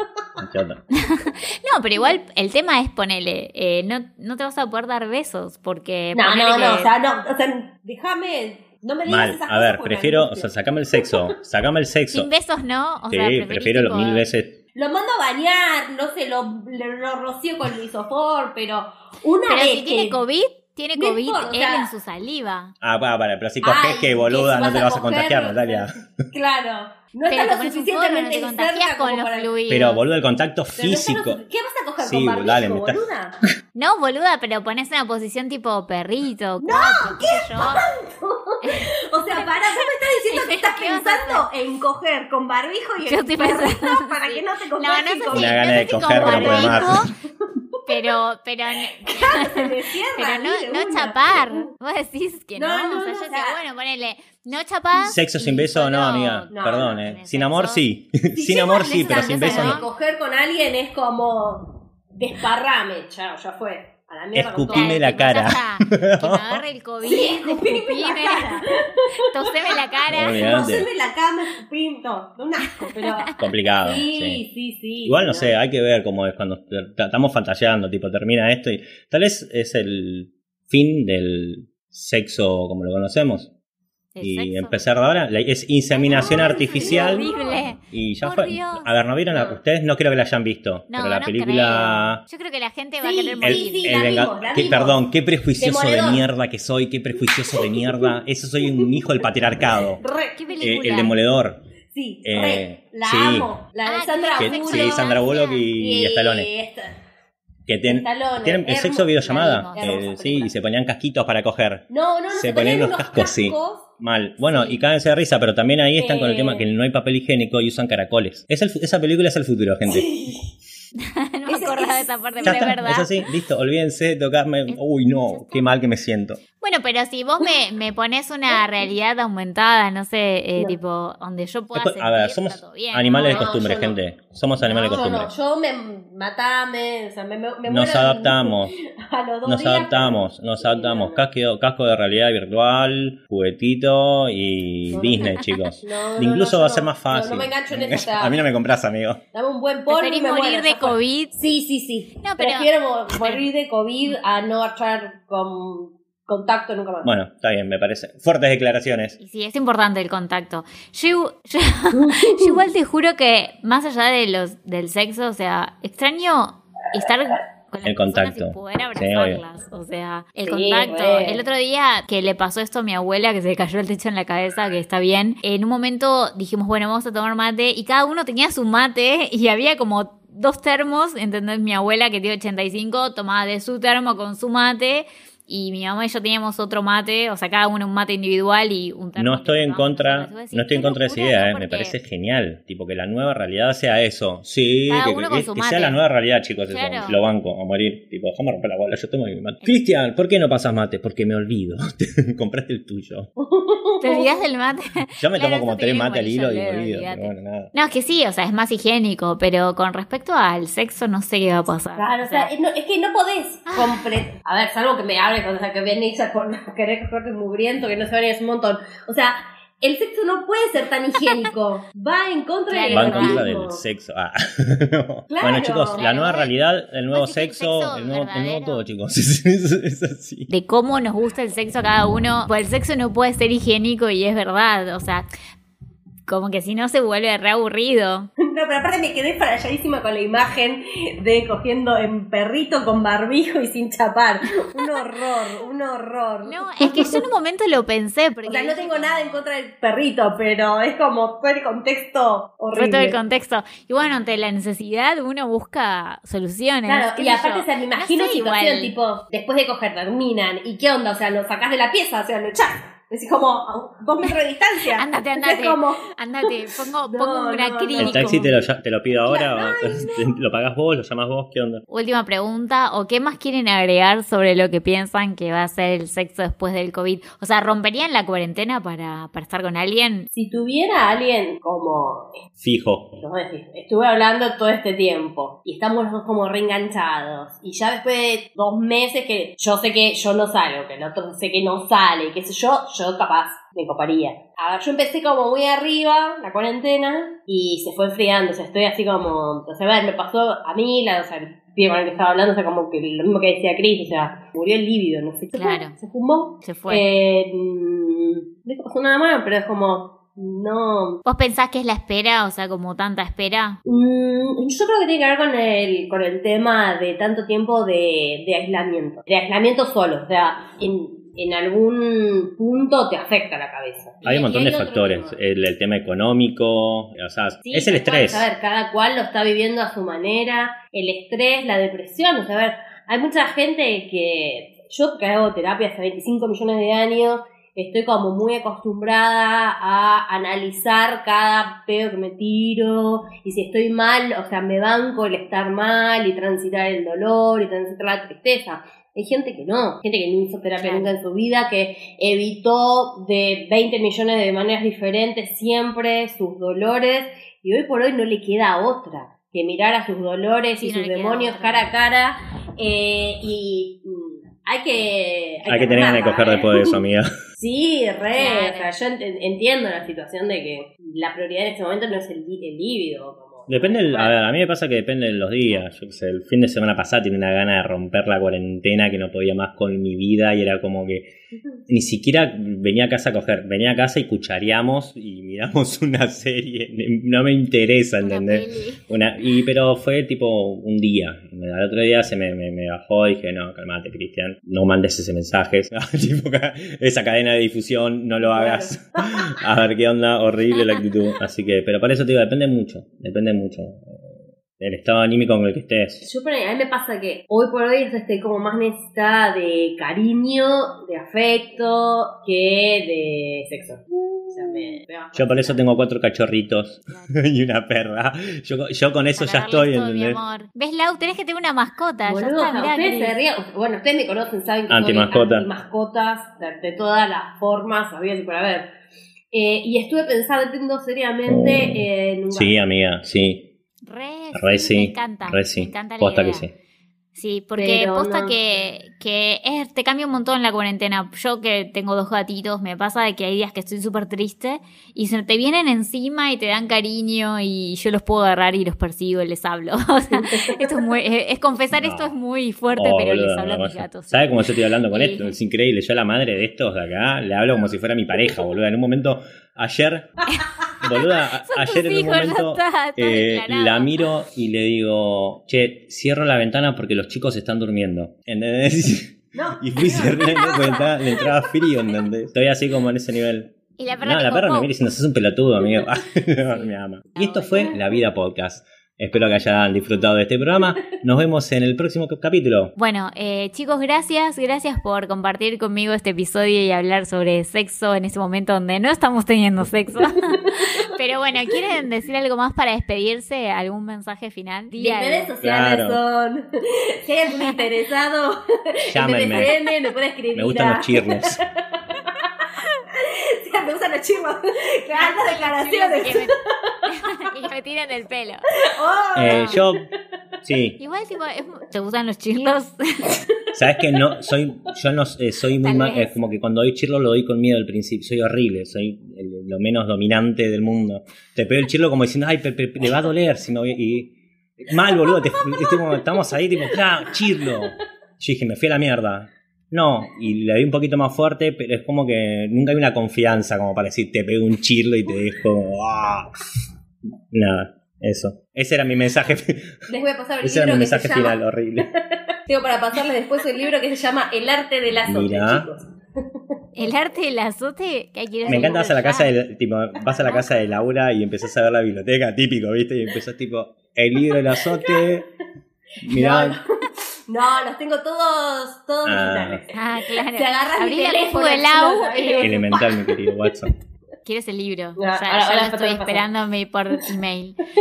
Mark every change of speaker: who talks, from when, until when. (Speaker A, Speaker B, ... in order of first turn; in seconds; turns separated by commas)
Speaker A: 0.4-0.8, Speaker B: 0.9-6.9, Speaker C: 6.2-11.3, Speaker A: 9.1-12.3, Speaker B: 12.1-14.2, Speaker A: 13.1-14.6, Speaker C: 14.8-20.2, Speaker B: 19.5-22.8, Speaker C: 21.0-21.9, Speaker A: 22.8-26.0, Speaker C: 23.6-29.5, Speaker B: 27.3-30.0, Speaker A: 29.7-31.4, Speaker C: 30.8-33.4, Speaker A: 32.0-33.0, Speaker B: 33.8-37.9, Speaker C: 36.6-47.1, Speaker B: 38.6-41.5, Speaker B: 43.1-47.1, Speaker A: 45.3-47.1, Speaker B: 47.9-57.8, Speaker C: 49.0-51.7, Speaker C: 52.6-53.6, Speaker A: 55.0-59.9, Speaker C: 56.5-57.0, Speaker C: 58.4-65.2, Speaker B: 58.9-59.9, Speaker A: 64.3-66.6, Speaker B: 64.7-70.5, Speaker C: 67.0-75.6, Speaker A: 70.1-70.9, Speaker B: 72.7-73.3, Speaker A: 73.4-74.4, Speaker A: 75.0-83.5, Speaker B: 84.2-84.9, Speaker A: 84.2-87.3, Speaker B: 85.9-89.0, Speaker C: 86.1-87.6, Speaker A: 87.8-92.2, Speaker C: 89.3-89.6, Speaker B: 90.9-94.2, Speaker C: 93.0-95.1, Speaker A: 93.4-100.0, Speaker C: 95.6-96.3, Speaker C: 97.3-98.9, Speaker C: 100.0-100.7, Speaker B: 100.3-101.2, Speaker A: 100.6-101.6, Speaker C: 101.9-105.2, Speaker A: 102.2-103.5, Speaker B: 103.8-105.7, Speaker A: 104.4-106.5, Speaker C: 105.8-107.0, Speaker A: 107.7-120.1, Speaker C: 107.9-110.5, Speaker B: 109.3-110.5, Speaker C: 111.9-113.9, Speaker B: 114.4-114.8, Speaker C: 116.0-116.7, Speaker C: 119.9-120.5, Speaker B: 121.0-123.1, Speaker C: 121.5-122.7, Speaker A: 122.4-126.4, Speaker B: 124.7-125.8, Speaker B: 126.6-133.9, Speaker A: 131.7-135.3, Speaker C: 133.3-134.0, Speaker B: 134.6-135.2, Speaker C: 134.8-141.2, Speaker A: 137.7-138.7, Speaker A: 139.4-149.2, Speaker C: 144.9-145.3, Speaker B: 145.2-145.8, Speaker C: 145.8-148.4, Speaker C: 149.3-157.1, Speaker B: 149.9-151.4, Speaker B: 152.2-153.5, Speaker A: 157.0-159.2, Speaker B: 159.2-192.0, Speaker C: 161.9-162.6, Speaker A: 167.8-169.4, Speaker C: 170.5-171.4, Speaker A: 189.2-203.3, Speaker B: 194.9-196.0, Speaker B: 196.7-197.2, Speaker C: 203.4-204.4, Speaker B: 204.0-212.5, Speaker A: 205.2-207.7, Speaker C: 212.0-223.8, Speaker B: 213.7-214.0, Speaker B: 222.7-223.5, Speaker A: 222.9-230.5, Speaker C: 225.3-226.1, Speaker B: 225.9-226.5, Speaker B: 227.1-228.9, Speaker B: 230.5-235.3, Speaker B: 236.3-238.3, Speaker C: 238.4-247.2, Speaker B: 246.4-249.4, Speaker C: 248.5-253.2, Speaker B: 252.7-258.9, Speaker C: 256.9-266.5, Speaker B: 265.0-268.5, Speaker C: 267.1-268.4, Speaker A: 268.0-271.8, Speaker C: 269.3-269.9, Speaker B: 271.9-280.3, Speaker C: 280.3-282.4, Speaker A: 282.6-283.1, Speaker C: 283.2-311.2, Speaker B: 305.6-305.9, Speaker B: 306.6-307.0, Speaker B: 311.3-313.8, Speaker C: 313.9-325.4, Speaker A: 324.2-328.5, Speaker C: 327.6-367.0, Speaker B: 350.8-351.1, Speaker B: 360.8-361.9, Speaker A: 365.7-367.3, Speaker C: 367.6-374.4, Speaker B: 368.4-368.9, Speaker A: 373.7-381.3, Speaker A: 381.9-406.3, Speaker B: 388.2-389.0, Speaker C: 398.4-399.3, Speaker C: 406.2-415.8, Speaker A: 415.4-420.4, Speaker B: 419.4-423.4, Speaker C: 422.3-428.9, Speaker A: 424.9-425.7, Speaker C: 429.5-432.7, Speaker A: 431.5-433.7, Speaker B: 434.1-436.7, Speaker A: 434.5-436.7, Speaker B: 437.4-455.6, Speaker C: 437.8-438.6, Speaker C: 450.3-451.1, Speaker A: 451.9-452.3, Speaker A: 452.9-460.4, Speaker A: 461.0-482.9, Speaker B: 461.6-464.1, Speaker C: 469.6-471.0, Speaker B: 470.5-471.1, Speaker B: 474.0-474.9, Speaker B: 476.6-477.9, Speaker B: 483.0-495.5, Speaker C: 494.9-502.4, Speaker A: 495.6-496.2, Speaker A: 499.1-499.8, Speaker A: 500.5-501.6, Speaker C: 503.1-507.1, Speaker B: 505.2-508.6, Speaker C: 508.8-509.9, Speaker A: 509.4-510.1, Speaker A: 510.6-511.0, Speaker B: 511.0-513.4, Speaker A: 513.7-536.5, Speaker B: 515.8-516.4, Speaker C: 525.3-526.1, Speaker A: 537.5-540.0, Speaker C: 540.1-546.1, Speaker A: 540.6-542.1, Speaker A: 545.3-545.9, Speaker B: 547.0-549.5, Speaker C: 548.7-549.0, Speaker A: 548.7-555.5, Speaker B: 550.4-550.7, Speaker C: 554.9-555.3, Speaker A: 556.2-556.8, Speaker C: 556.3-563.9, Speaker A: 559.2-559.8, Speaker B: 559.9-562.8, Speaker A: 562.6-563.9, Speaker B: 564.5-567.8, Speaker C: 565.2-566.5